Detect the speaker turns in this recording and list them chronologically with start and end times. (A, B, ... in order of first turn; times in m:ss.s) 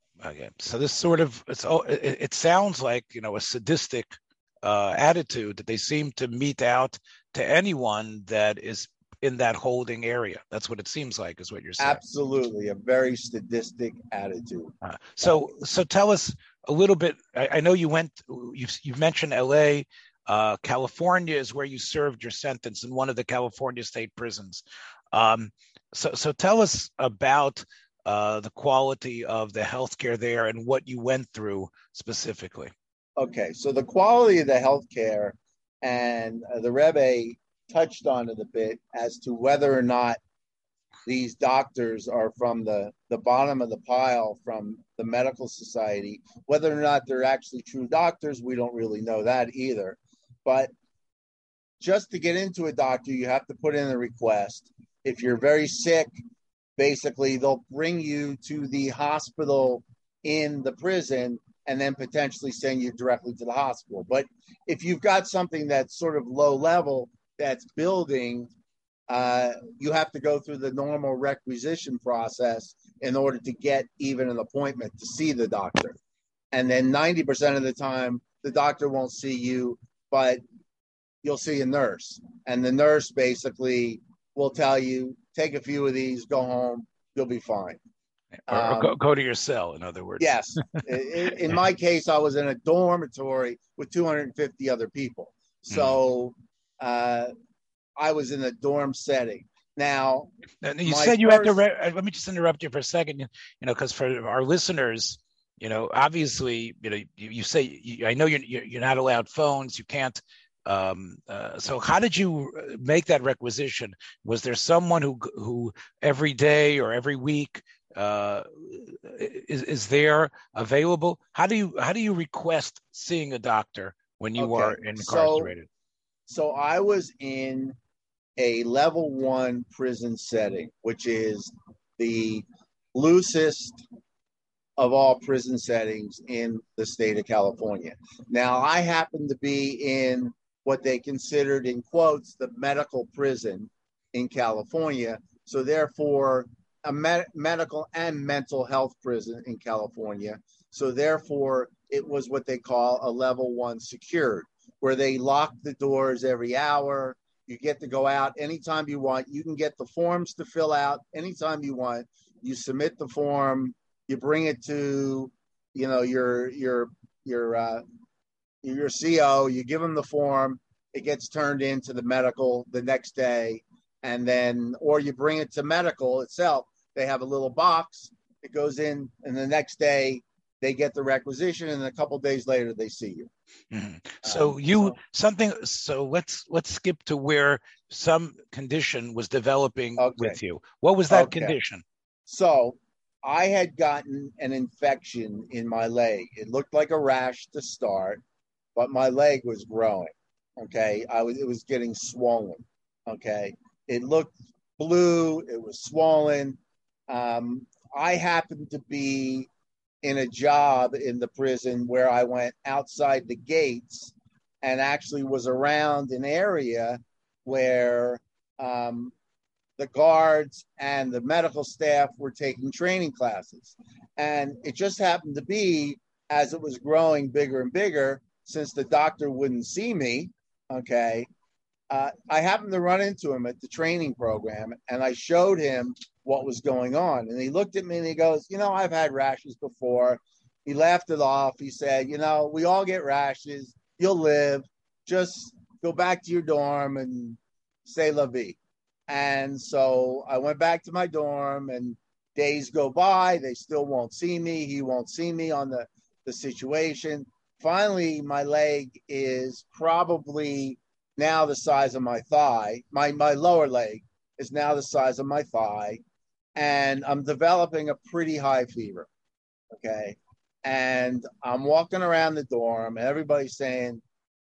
0:00.2-0:12.0 A
0:11.8-0:15.4 B
0:14.8-0:32.7 A
0:33.2-0:40.2 B
0:41.1-0:50.7 B
0:51.8-0:56.1 B
0:56.8-1:08.5 B
1:09.1-1:16.0 B
1:16.5-1:20.4 B
1:21.2-1:27.8 B
1:28.4-1:30.8 A
1:28.5-1:28.9 B
1:30.2-1:37.3 B
1:35.7-1:36.0 A
1:38.0-1:40.3 B
1:40.6-2:05.7 A
1:40.8-1:41.6 B
2:04.4-2:05.5 B
2:06.3-2:07.8 B
2:08.4-2:13.8 B
2:14.8-2:47.8 B
2:48.6-3:03.3 B
3:03.7-3:11.8 A
3:04.2-3:05.0 B
3:10.0-3:10.4 B
3:11.1-3:11.6 B
3:12.3-3:18.2 B
3:18.8-3:29.5 B
3:30.0-3:39.1 B
3:39.8-3:51.3 B
3:51.9-4:08.6 B
4:09.1-4:26.0 B
4:26.6-4:29.1 B
4:29.7-4:34.0 B